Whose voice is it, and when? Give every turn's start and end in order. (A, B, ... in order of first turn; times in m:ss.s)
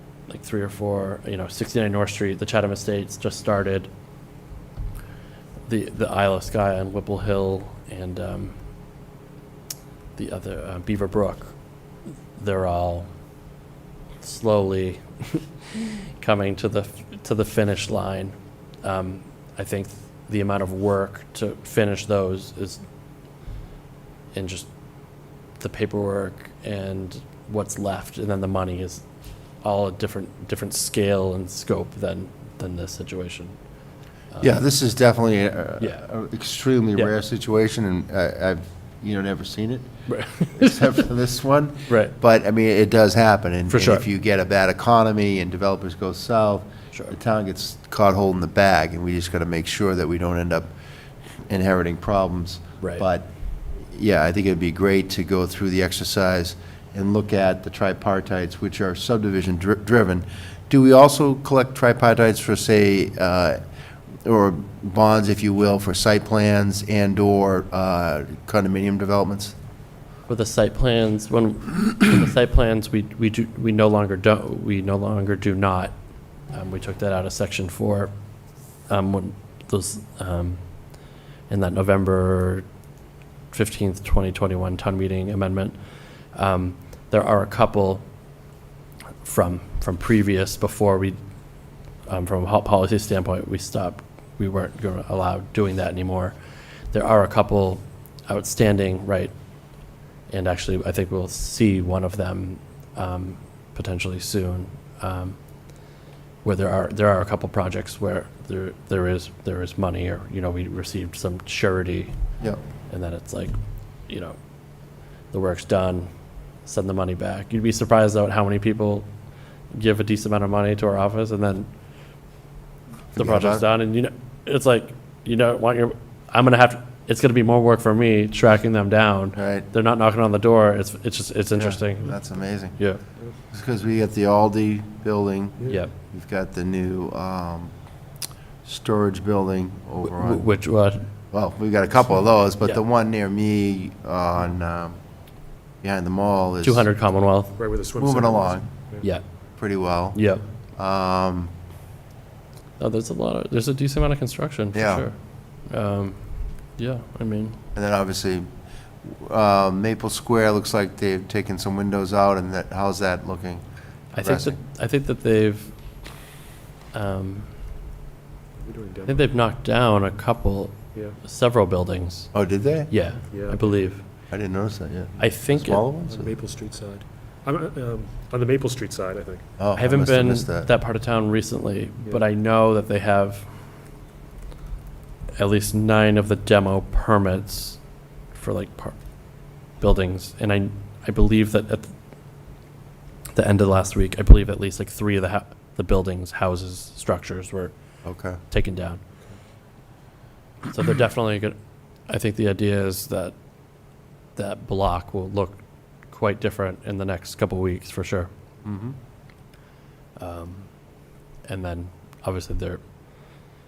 0:00.3-0:03.9 A
0:05.7-0:08.6 A
0:10.2-0:11.6 A
0:12.3-0:13.1 A
0:14.2-0:22.8 A
0:24.3-0:24.7 A
0:25.6-0:29.1 A
0:29.6-0:33.6 A
0:34.3-0:34.6 A
0:34.4-0:39.9 B
0:40.1-0:40.9 A
0:40.5-0:50.7 B
0:41.9-0:42.1 A
0:43.7-0:44.0 A
0:51.5-0:53.3 B
0:52.8-0:53.0 A
0:53.9-1:03.6 B
1:04.2-1:09.5 B
1:10.3-1:15.9 A
1:16.5-1:18.1 A
1:18.9-1:22.6 A
1:23.5-1:25.8 A
1:26.3-1:28.0 A
1:29.2-1:31.2 A
1:32.0-1:39.3 A
1:40.3-1:45.4 A
1:46.4-1:52.1 A
1:52.9-1:53.6 A
1:54.1-1:54.4 A
1:55.3-1:56.1 A
1:56.6-1:59.1 A
1:59.7-2:01.7 A
2:03.1-2:12.2 A
2:03.1-2:03.6 B
2:09.3-2:09.7 B
2:11.6-2:12.8 B
2:12.7-2:13.0 A
2:13.5-2:17.7 B
2:15.7-2:15.9 A
2:18.6-2:20.5 B
2:20.0-2:21.1 A
2:21.3-2:25.0 B
2:25.8-2:26.9 B
2:26.6-2:27.6 A
2:27.6-2:29.1 C
2:28.0-2:28.7 B
2:29.6-2:30.2 B
2:30.1-2:30.5 A
2:30.8-2:31.5 B
2:32.8-2:37.6 A
2:34.7-2:35.1 B
2:37.8-2:38.5 B
2:39.0-2:43.6 B
2:44.1-2:45.8 A
2:44.2-2:44.6 B
2:46.9-2:47.5 A
2:48.6-2:49.3 C
2:49.1-2:52.3 A
2:52.3-2:52.9 B
2:52.9-2:54.1 A
2:53.3-2:53.8 C
2:54.3-2:56.3 B
2:55.2-2:55.9 A
2:56.1-2:59.5 C
2:59.6-3:00.7 B
2:59.8-3:03.5 A
3:05.4-3:11.9 A
3:13.3-3:17.8 A
3:18.0-3:18.4 B
3:18.4-3:19.0 A
3:20.7-3:23.4 A
3:24.3-3:28.3 A
3:28.6-3:29.0 B
3:30.2-3:30.7 A
3:31.4-3:32.8 A